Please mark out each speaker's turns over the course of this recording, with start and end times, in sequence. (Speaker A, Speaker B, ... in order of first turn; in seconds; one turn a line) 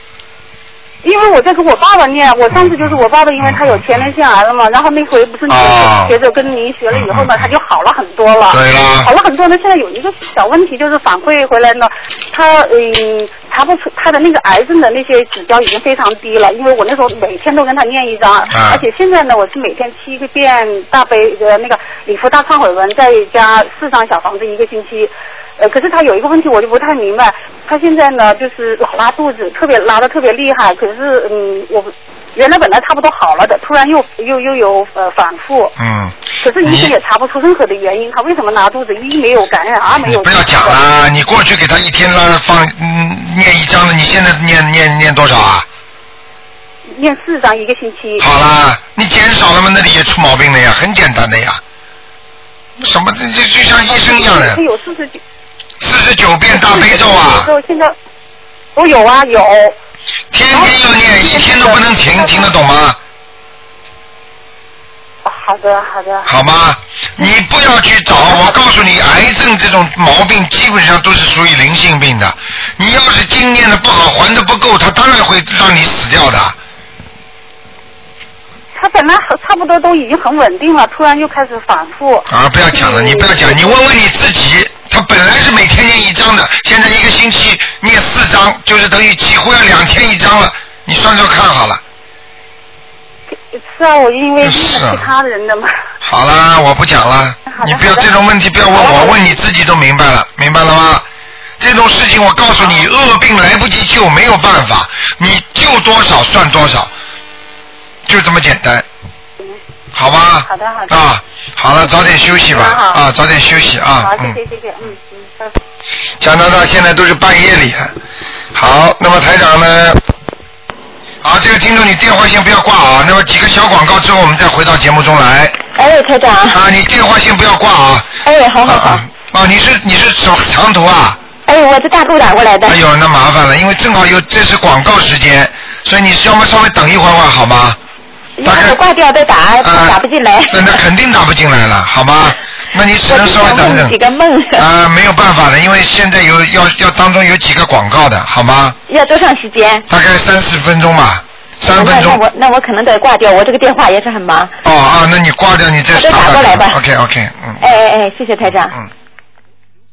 Speaker A: 1.0-35.8
Speaker B: 2.5-4.1
Speaker B: 5.5-6.2
Speaker B: 6.9-7.5
Speaker B: 8.5-9.1
Speaker B: 18.5-18.8
Speaker B: 35.8-36.9
Speaker A: 36.4-40.8
Speaker B: 39.9-45.7
Speaker A: 47.0-48.2
Speaker B: 48.2-51.6
Speaker B: 52.8-54.6
Speaker A: 53.9-55.2
Speaker B: 55.8-57.5
Speaker A: 56.5-57.9
Speaker A: 58.8-59.8
Speaker B: 60.3-63.0
Speaker A: 60.5-62.5
Speaker A: 65.2-66.3
Speaker B: 66.2-76.5
Speaker A: 78.8-83.8
Speaker B: 82.3-91.8
Speaker A: 93.5-95.7
Speaker B: 94.4-95.1
Speaker B: 96.0-101.1
Speaker A: 97.5-98.1
Speaker A: 98.7-99.4
Speaker B: 101.6-106.9
Speaker B: 108.1-108.8
Speaker B: 110.0-114.4
Speaker A: 110.4-111.0
Speaker A: 111.9-113.0
Speaker A: 114.0-115.5
Speaker B: 116.2-117.9
Speaker B: 118.5-120.0
Speaker B: 121.2-125.6
Speaker C: 125.8-126.6
Speaker B: 126.5-128.1
Speaker C: 128.2-129.1
Speaker B: 128.6-131.2
Speaker C: 131.5-132.8
Speaker B: 132.7-137.8
Speaker C: 138.4-140.8
Speaker B: 138.4-138.8
Speaker B: 139.6-144.0
Speaker C: 143.1-144.7
Speaker B: 144.6-148.8
Speaker C: 148.9-149.8
Speaker B: 149.9-152.2
Speaker C: 151.7-154.5
Speaker B: 154.7-157.6
Speaker C: 155.9-156.8
Speaker C: 157.6-158.8